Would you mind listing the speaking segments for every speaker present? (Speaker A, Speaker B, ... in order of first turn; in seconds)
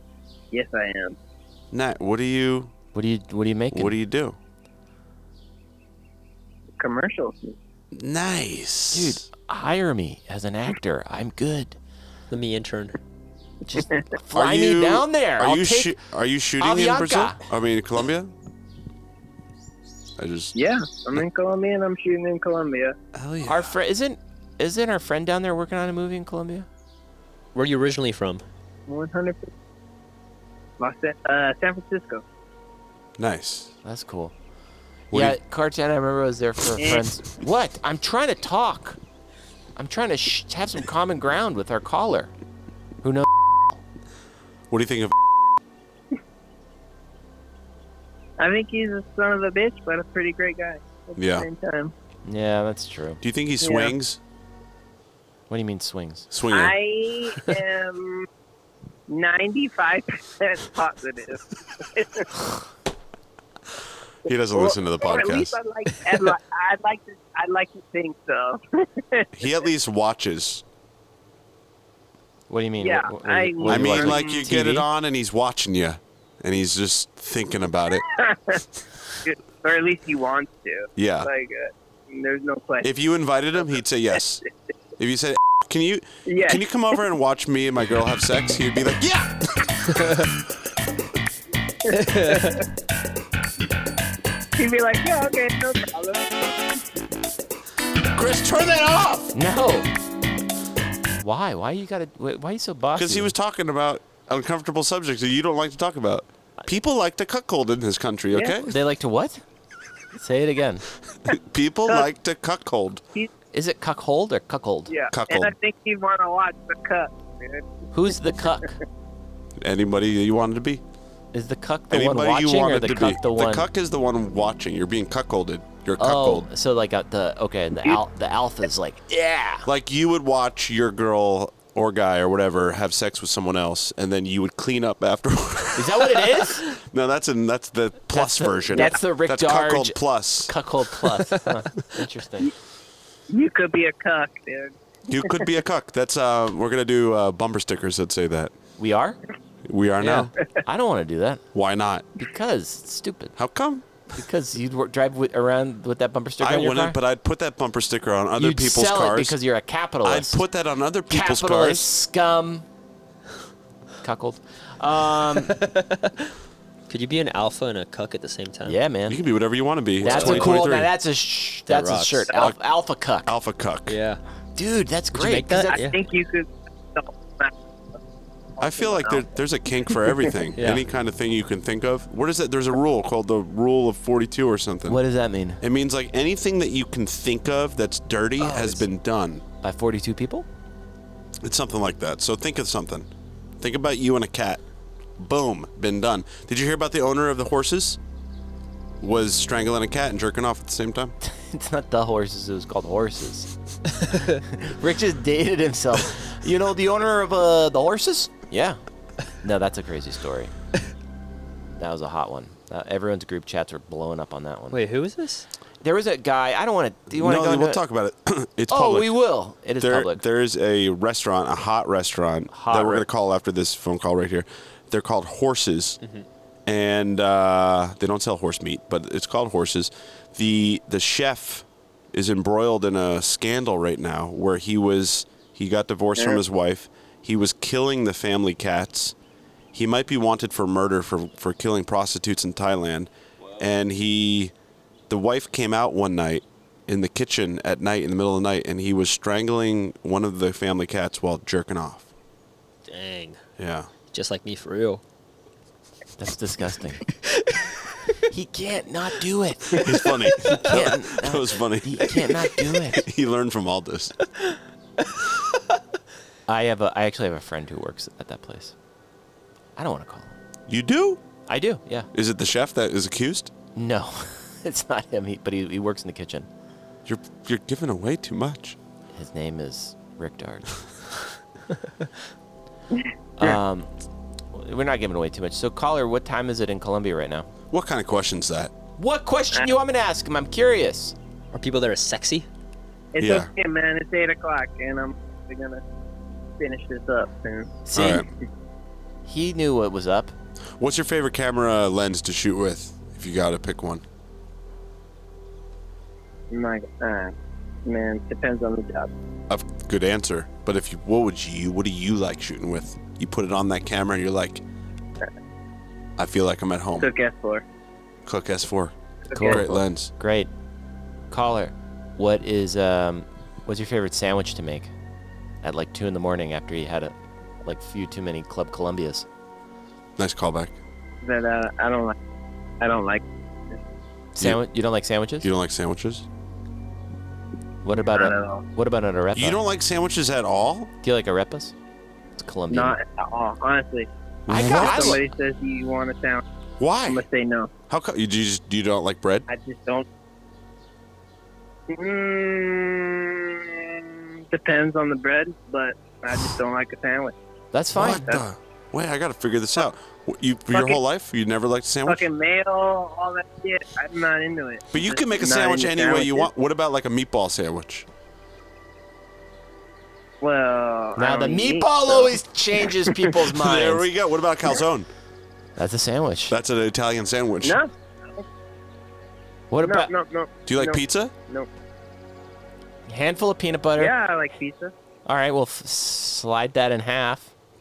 Speaker A: 0.5-1.2, 6.8-7.5, 20.5-22.9, 28.9-29.5, 30.8-32.2, 36.8-37.1, 48.4-51.9, 53.6-53.9, 56.5-58.3, 59.1-62.4, 64.3-69.3, 72.8-74.4, 78.2-78.6, 79.2-82.9, 86.2-86.6, 91.9-92.5, 94.5-96.5, 114.9-117.7, 143.3-145.3, 175.8-177.5, 178.6-179.3, 293.1-295.8, 296.6-298.1, 306.5-307.3, 307.9-309.1, 317.0-317.6, 319.3-319.6, 331.2-332.1, 332.8-333.8, 338.1-338.6, 342.7-346.4, 347.1-347.7, 349.5-350.1, 351.9-357.4, 358.0-358.4, 360.7-361.0, 362.0-366.5, 370.4-373.1, 377.6-378.4, 379.8-381.7, 384.0-384.9
Speaker B: 1.7-2.7, 3.7-4.4, 7.9-9.2, 14.3-18.3, 20.2-20.5, 23.1-23.8, 33.2-33.7, 35.1-35.4, 44.7-45.1, 51.2-51.5, 53.2-54.2, 56.3-56.8, 64.2-65.5, 69.3-70.6, 73.6-78.0, 81.0-81.3, 82.8-84.4, 85.0-89.7, 98.1-99.3, 103.0-108.8, 111.2-113.0, 115.1-115.5, 119.6-120.8, 121.9-126.5, 129.7-136.2, 136.7-140.5, 145.1-148.5, 149.7-150.3, 151.5-152.1, 153.4-154.0, 156.4-159.4, 160.0-161.9, 169.1-170.9, 173.2-174.0, 178.6-185.0, 185.6-189.4, 191.4-193.1, 193.6-194.6, 195.2-198.0, 199.0-201.1, 217.1-219.2, 219.8-226.0, 226.7-239.1, 239.7-244.5, 245.1-252.1, 253.6-253.9, 259.8-262.2, 262.9-264.2, 270.7-271.2, 272.1-273.5, 277.1-278.8, 287.7-288.7, 293.2-293.5, 297.9-298.3, 300.8-304.0, 309.5-314.6, 316.2-317.1, 318.2-320.1, 330.2-330.8, 335.4-336.2, 339.3-340.9, 344.5-345.2, 346.8-347.2, 347.9-349.5, 357.9-362.2, 364.9-368.1, 373.5-375.1, 376.5-377.8, 380.6-381.3
Speaker C: 2.9-4.0, 8.9-11.8, 13.7-16.0, 16.6-17.4, 23.4-26.7, 33.8-34.3, 35.1-39.0, 39.8-42.3, 43.0-43.3, 52.2-53.2, 55.5-56.2, 72.5-74.9, 99.3-99.9, 101.2-103.3, 108.7-109.4, 110.2-110.8, 113.5-114.9, 117.9-118.7, 121.3-123.7, 126.0-129.7, 135.8-136.6, 138.1-142.5, 148.8-149.2, 150.6-151.4, 152.2-153.4, 154.2-157.0, 158.4-160.4, 161.1-162.6, 164.0-165.6, 168.7-169.2, 170.0-173.3, 174.6-175.8, 184.8-185.6, 189.6-190.5, 201.2-203.5, 204.5-208.8, 209.4-210.5, 211.8-214.8, 215.8-217.8, 218.7-220.2, 222.5-223.1, 256.2-257.0, 258.3-259.8, 260.5-263.0, 266.5-268.7, 269.8-270.3, 271.5-272.1, 273.8-276.5, 279.1-280.7, 283.4-283.9, 284.5-287.5, 289.0-291.1, 297.9-298.2, 299.2-300.3, 319.3-320.5, 321.3-324.9, 325.6-327.1, 327.6-329.2, 334.3-335.5, 337.8-339.6, 341.0-341.7, 342.4-343.0, 344.5-345.2, 357.7-358.2, 371.1-374.1, 375.8-376.5, 379.7-380.1, 383.1-384.1, 385.2-387.5
Speaker D: 12.3-13.0, 27.5-28.4, 89.9-90.2, 91.9-92.6, 141.0-141.5, 150.0-150.3, 165.4-166.3, 166.9-168.8, 170.0-170.6, 171.7-172.3, 173.9-174.2, 175.1-176.0, 180.6-180.8, 188.4-188.8, 214.7-215.4, 226.0-226.3, 252.8-253.4, 254.1-255.0, 291.5-292.5